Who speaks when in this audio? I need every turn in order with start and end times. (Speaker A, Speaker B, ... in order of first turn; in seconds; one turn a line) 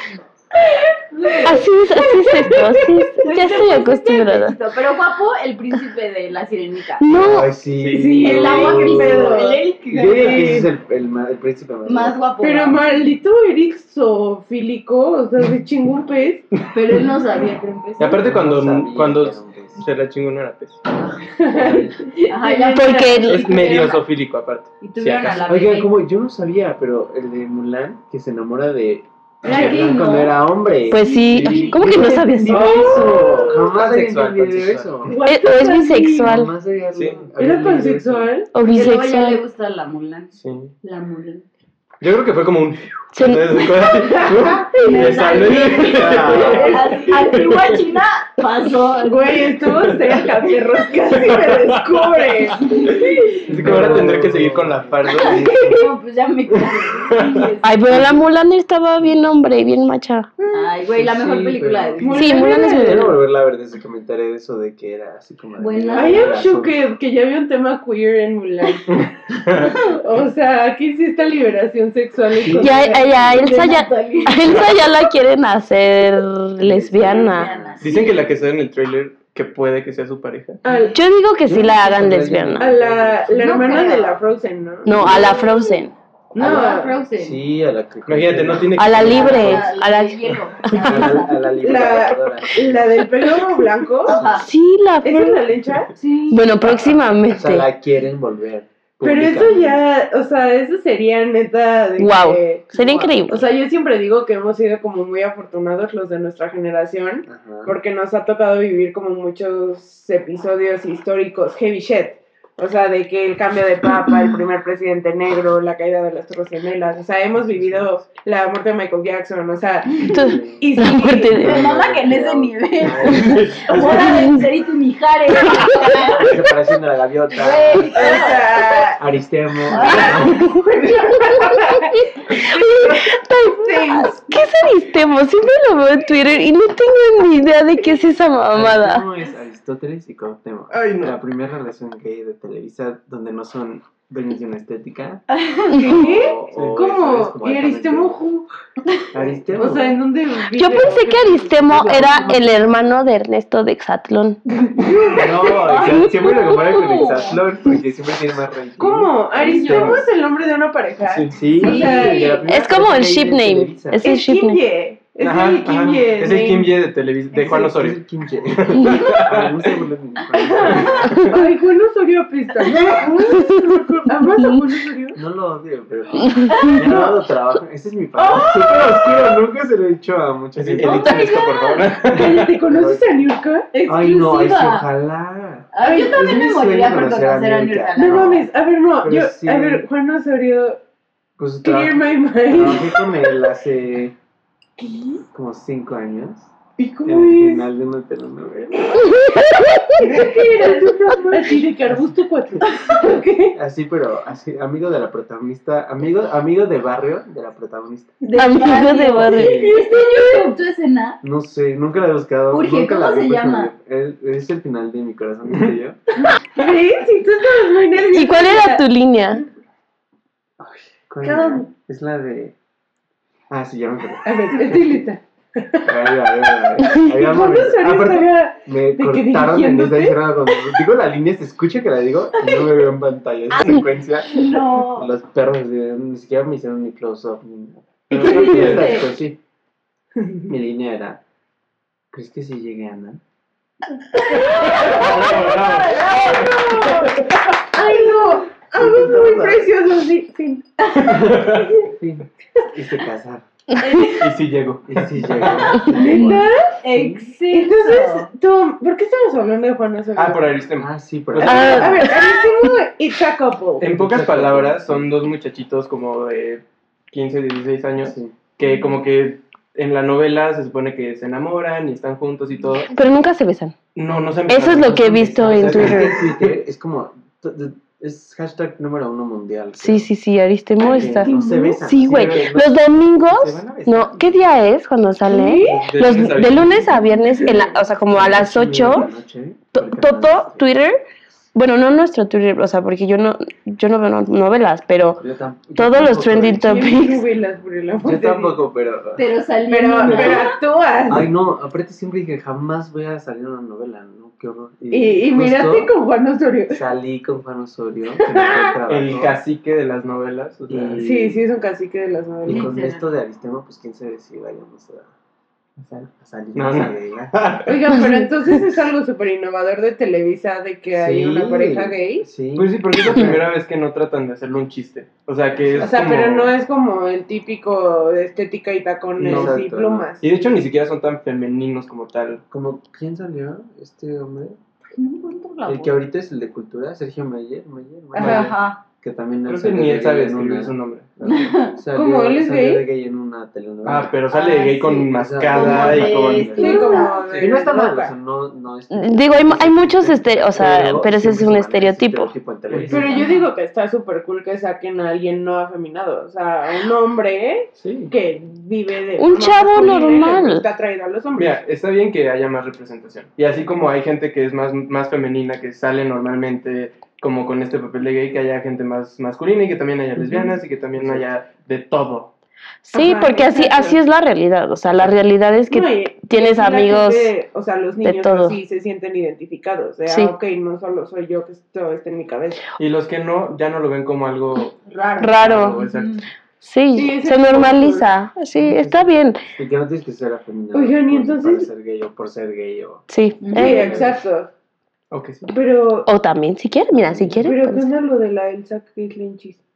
Speaker A: 0.8-7.0
Speaker B: 1.1-1.6
Speaker C: 1.4-4.5
Speaker B: 2.3-2.8
Speaker C: 7.0-7.5
Speaker D: 7.1-12.2
Speaker E: 7.4-9.1
Speaker B: 7.9-10.7
Speaker A: 8.2-10.7
Speaker A: 11.8-12.9
Speaker B: 12.4-16.5
Speaker A: 16.7-18.3
Speaker E: 18.0-20.8
Speaker D: 18.2-19.8
Speaker A: 21.0-24.0
Speaker B: 21.2-23.9
Speaker D: 21.5-21.9
Speaker C: 22.7-23.9
Speaker E: 23.2-25.5
Speaker A: 24.8-26.0
Speaker D: 25.4-35.2
Speaker A: 29.4-32.0
Speaker E: 29.4-30.1
Speaker C: 30.9-33.4
Speaker E: 31.4-31.8
Speaker B: 32.0-33.8
Speaker E: 33.7-35.0
Speaker B: 35.0-36.3
Speaker C: 35.2-36.5
Speaker D: 36.2-38.3
Speaker E: 36.9-37.2
Speaker B: 37.4-38.5
Speaker C: 38.5-39.4
Speaker A: 38.6-41.5
Speaker E: 40.4-40.7
Speaker E: 42.0-46.6
Speaker C: 43.1-43.8
Speaker B: 44.0-47.3
Speaker A: 44.2-49.5
Speaker D: 45.9-46.9
Speaker E: 47.2-47.7
Speaker B: 49.0-53.5
Speaker E: 49.8-50.2
Speaker E: 51.2-52.3
Speaker E: 53.4-55.7
Speaker D: 53.5-55.9
Speaker A: 55.1-58.2
Speaker E: 57.1-57.5
Speaker C: 57.6-60.3
Speaker A: 60.5-62.6
Speaker D: 60.8-66.8
Speaker B: 62.0-63.1
Speaker C: 62.1-63.1
Speaker A: 65.6-66.4
Speaker B: 65.9-69.0
Speaker E: 68.9-69.8
Speaker A: 69.6-70.0
Speaker B: 70.0-73.5
Speaker D: 72.3-73.0
Speaker C: 72.6-77.5
Speaker A: 73.0-74.9
Speaker D: 76.6-78.1
Speaker A: 77.0-78.2
Speaker E: 77.8-80.6
Speaker B: 80.6-81.0
Speaker C: 80.9-82.7
Speaker D: 81.5-83.3
Speaker B: 82.6-85.2
Speaker A: 83.3-84.2
Speaker C: 84.8-85.9
Speaker A: 84.9-85.8
Speaker B: 86.3-87.0
Speaker A: 86.3-87.4
Speaker D: 87.1-89.6
Speaker E: 88.0-89.7
Speaker C: 88.8-91.2
Speaker A: 89.0-91.9
Speaker D: 90.8-93.0
Speaker B: 91.6-94.2
Speaker A: 94.0-94.5
Speaker D: 94.2-94.4
Speaker C: 94.4-95.4
Speaker B: 95.0-95.9
Speaker A: 96.0-96.5
Speaker C: 96.3-97.7
Speaker D: 96.6-99.8
Speaker B: 99.0-121.4
Speaker C: 102.0-103.4
Speaker D: 107.2-107.7
Speaker C: 120.1-121.7
Speaker D: 120.1-120.7
Speaker D: 121.3-123.6
Speaker A: 121.3-126.4
Speaker C: 123.0-124.4
Speaker E: 123.1-124.2
Speaker C: 125.5-126.2
Speaker D: 126.2-128.3
Speaker A: 127.3-128.9
Speaker B: 127.9-129.0
Speaker D: 129.0-130.4
Speaker A: 129.7-130.6
Speaker B: 129.8-134.4
Speaker C: 130.2-130.6
Speaker C: 132.2-139.0
Speaker D: 138.5-148.2
Speaker E: 140.7-141.1
Speaker A: 145.3-146.1
Speaker B: 145.8-148.5
Speaker E: 146.5-146.9
Speaker D: 149.1-150.0
Speaker B: 149.5-151.2
Speaker C: 150.5-154.9
Speaker D: 151.1-152.8
Speaker A: 154.7-157.4
Speaker B: 154.8-155.2
Speaker D: 155.1-159.1
Speaker C: 155.9-156.3
Speaker B: 158.8-162.4
Speaker A: 159.3-160.1
Speaker E: 159.5-160.0
Speaker E: 161.0-161.4
Speaker D: 161.3-164.0
Speaker A: 161.5-162.4
Speaker C: 162.5-164.6
Speaker B: 164.0-166.7
Speaker E: 165.2-169.8
Speaker D: 167.3-171.1
Speaker B: 170.3-173.2
Speaker A: 170.6-171.1
Speaker E: 170.8-171.5
Speaker C: 171.1-171.4
Speaker C: 173.3-174.7
Speaker B: 174.0-175.2
Speaker D: 175.1-181.3
Speaker C: 176.2-176.9
Speaker A: 176.6-177.0
Speaker A: 178.2-179.3
Speaker E: 180.6-182.6
Speaker A: 180.8-181.9
Speaker B: 182.1-183.7
Speaker D: 182.7-183.0
Speaker A: 183.7-184.9
Speaker D: 183.9-188.4
Speaker A: 185.7-188.4
Speaker B: 185.8-186.4
Speaker B: 188.0-190.8
Speaker D: 189.0-189.8
Speaker D: 191.4-194.1
Speaker B: 191.6-193.4
Speaker A: 194.8-195.2
Speaker D: 195.3-196.5
Speaker B: 196.8-197.7
Speaker D: 197.0-199.1
Speaker C: 199.0-200.0
Speaker B: 200.0-203.6
Speaker A: 200.4-201.1
Speaker D: 200.6-201.6
Speaker D: 203.5-208.2
Speaker A: 208.2-211.2
Speaker C: 208.3-209.7
Speaker D: 209.2-209.9
Speaker B: 209.8-210.5
Speaker D: 211.2-216.0
Speaker A: 212.5-213.7
Speaker B: 216.5-218.8
Speaker C: 218.1-219.4
Speaker D: 220.6-222.5
Speaker B: 221.2-221.7
Speaker D: 223.5-224.8
Speaker B: 224.2-230.6
Speaker D: 225.8-239.4
Speaker A: 232.4-232.7
Speaker A: 234.3-235.1
Speaker E: 238.1-239.1
Speaker A: 238.1-239.1
Speaker D: 240.5-241.2
Speaker D: 242.1-243.2
Speaker A: 244.3-247.2
Speaker B: 244.4-245.3
Speaker E: 244.8-246.1
Speaker B: 246.0-251.1
Speaker A: 247.7-248.5
Speaker D: 248.7-249.7
Speaker E: 250.9-251.8
Speaker D: 251.4-253.4
Speaker C: 253.8-254.1
Speaker A: 253.8-254.3
Speaker E: 254.2-255.8
Speaker D: 254.9-257.2
Speaker A: 255.4-258.3
Speaker B: 255.9-256.7
Speaker B: 257.5-260.4
Speaker E: 260.1-262.1
Speaker D: 260.8-262.0
Speaker C: 261.4-262.7
Speaker B: 261.4-263.9
Speaker E: 263.8-272.9
Speaker D: 263.9-265.1
Speaker D: 268.0-268.4
Speaker C: 272.9-273.8
Speaker E: 273.9-276.5
Speaker C: 274.5-276.3
Speaker D: 275.1-280.1
Speaker C: 279.8-289.1
Speaker A: 280.8-281.8
Speaker D: 280.8-284.4
Speaker B: 285.2-285.9
Speaker D: 285.6-286.6
Speaker E: 285.7-286.8
Speaker B: 287.2-287.8
Speaker D: 288.1-290.7
Speaker C: 289.7-291.0
Speaker C: 291.5-295.2
Speaker D: 295.2-296.8
Speaker C: 295.8-297.2
Speaker B: 296.5-298.6
Speaker D: 298.0-299.3
Speaker A: 299.2-300.6
Speaker B: 299.7-301.3
Speaker D: 300.0-300.5
Speaker D: 301.1-305.9
Speaker B: 304.9-306.8
Speaker D: 306.7-309.4
Speaker B: 308.3-308.7
Speaker E: 308.9-311.0
Speaker D: 310.7-311.4
Speaker B: 311.0-312.9
Speaker D: 312.4-315.1
Speaker A: 312.5-313.1
Speaker E: 315.8-317.9
Speaker D: 316.1-317.3
Speaker B: 317.6-322.2
Speaker C: 317.9-318.3
Speaker D: 320.9-323.5
Speaker E: 322.5-326.5
Speaker B: 325.8-330.2
Speaker E: 329.2-329.6
Speaker D: 329.2-330.1
Speaker E: 330.2-332.4
Speaker D: 332.5-334.6
Speaker A: 334.9-336.0
Speaker D: 335.6-344.2
Speaker B: 338.1-338.5
Speaker A: 338.2-338.8
Speaker E: 339.4-341.2
Speaker A: 341.2-341.8
Speaker B: 341.9-342.9
Speaker E: 343.8-347.6
Speaker A: 344.3-347.2
Speaker D: 345.1-353.2
Speaker B: 346.6-348.1
Speaker C: 348.9-352.3
Speaker E: 352.7-353.2
Speaker B: 352.9-361.6
Speaker A: 352.9-353.5
Speaker E: 357.8-358.1
Speaker C: 359.2-360.6
Speaker E: 361.3-372.3
Speaker D: 370.2-371.3
Speaker C: 372.8-377.3
Speaker B: 372.9-374.0
Speaker B: 375.7-382.6
Speaker C: 378.0-378.6
Speaker C: 380.1-380.3
Speaker E: 382.8-386.2
Speaker B: 384.9-385.3
Speaker C: 385.2-385.9
Speaker A: 385.8-386.3
Speaker C: 386.6-389.4
Speaker B: 386.9-388.1
Speaker D: 388.5-393.0
Speaker B: 390.7-391.7
Speaker C: 393.1-394.1
Speaker A: 393.4-394.0
Speaker B: 393.5-394.5
Speaker E: 395.1-395.5
Speaker B: 395.5-396.1
Speaker C: 396.1-397.9
Speaker D: 396.9-397.4
Speaker B: 397.4-399.6